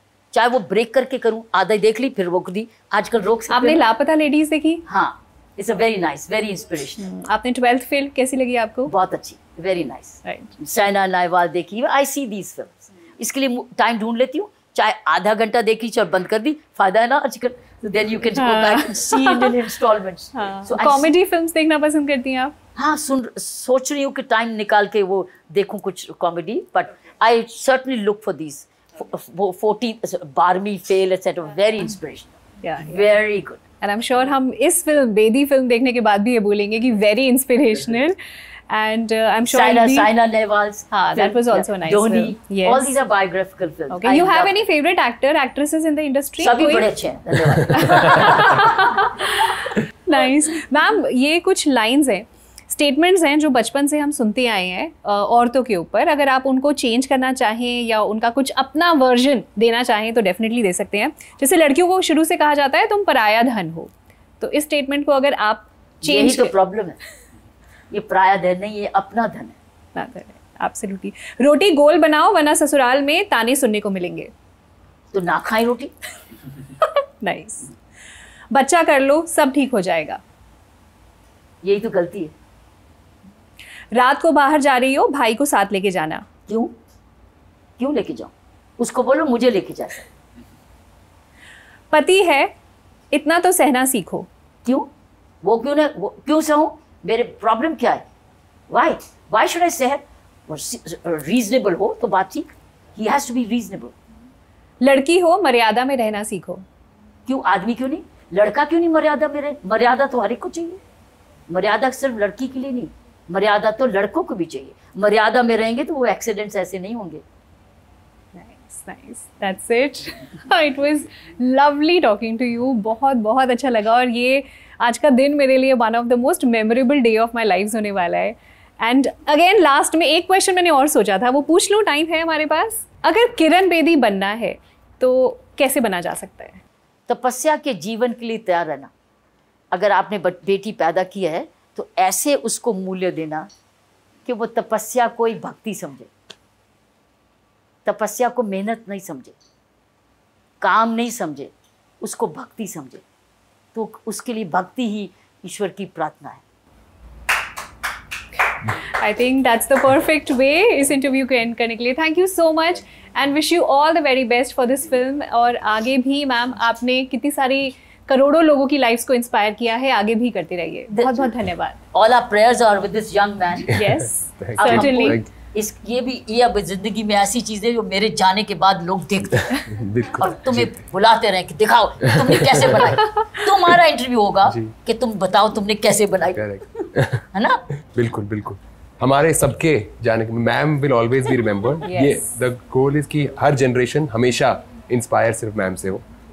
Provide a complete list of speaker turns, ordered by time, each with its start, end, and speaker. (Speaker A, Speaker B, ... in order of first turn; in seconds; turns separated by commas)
Speaker A: 0.3-3.8, Speaker B: 3.5-4.8, Speaker A: 4.9-7.0, Speaker B: 7.0-8.9, Speaker A: 8.9-21.1, Speaker B: 10.2-10.5, Speaker B: 18.3-19.5, Speaker B: 20.3-22.5, Speaker A: 22.8-33.6, Speaker B: 32.6-33.1, Speaker B: 33.8-38.2, Speaker B: 38.7-40.1, Speaker A: 39.5-44.5, Speaker B: 40.9-42.9, Speaker B: 43.9-46.9, Speaker A: 46.4-48.7, Speaker B: 47.7-66.5, Speaker A: 66.0-67.0, Speaker A: 67.9-69.5, Speaker B: 69.9-74.3, Speaker A: 75.1-75.9, Speaker B: 76.8-77.7, Speaker B: 78.5-80.2, Speaker A: 81.6-82.3, Speaker B: 83.9-86.2, Speaker A: 86.5-86.7, Speaker A: 87.8-90.0, Speaker B: 91.9-92.5, Speaker B: 93.1-94.3, Speaker A: 95.4-98.0, Speaker A: 98.7-103.9, Speaker B: 104.8-106.6, Speaker A: 107.3-110.8, Speaker A: 111.5-117.2, Speaker B: 118.3-136.6, Speaker A: 137.1-138.9, Speaker A: 139.7-143.5, Speaker A: 144.2-146.1, Speaker A: 147.8-149.3, Speaker A: 150.6-151.5, Speaker A: 152.0-153.0, Speaker A: 153.7-156.4, Speaker B: 158.7-171.8, Speaker A: 170.9-171.3, Speaker A: 171.9-173.7, Speaker C: 173.7-175.3, Speaker B: 173.7-175.2, Speaker A: 174.6-179.5, Speaker C: 179.3-180.8, Speaker A: 180.2-187.6, Speaker C: 182.1-182.9, Speaker C: 184.4-184.7, Speaker C: 186.3-187.2, Speaker C: 187.8-196.0, Speaker B: 191.8-192.4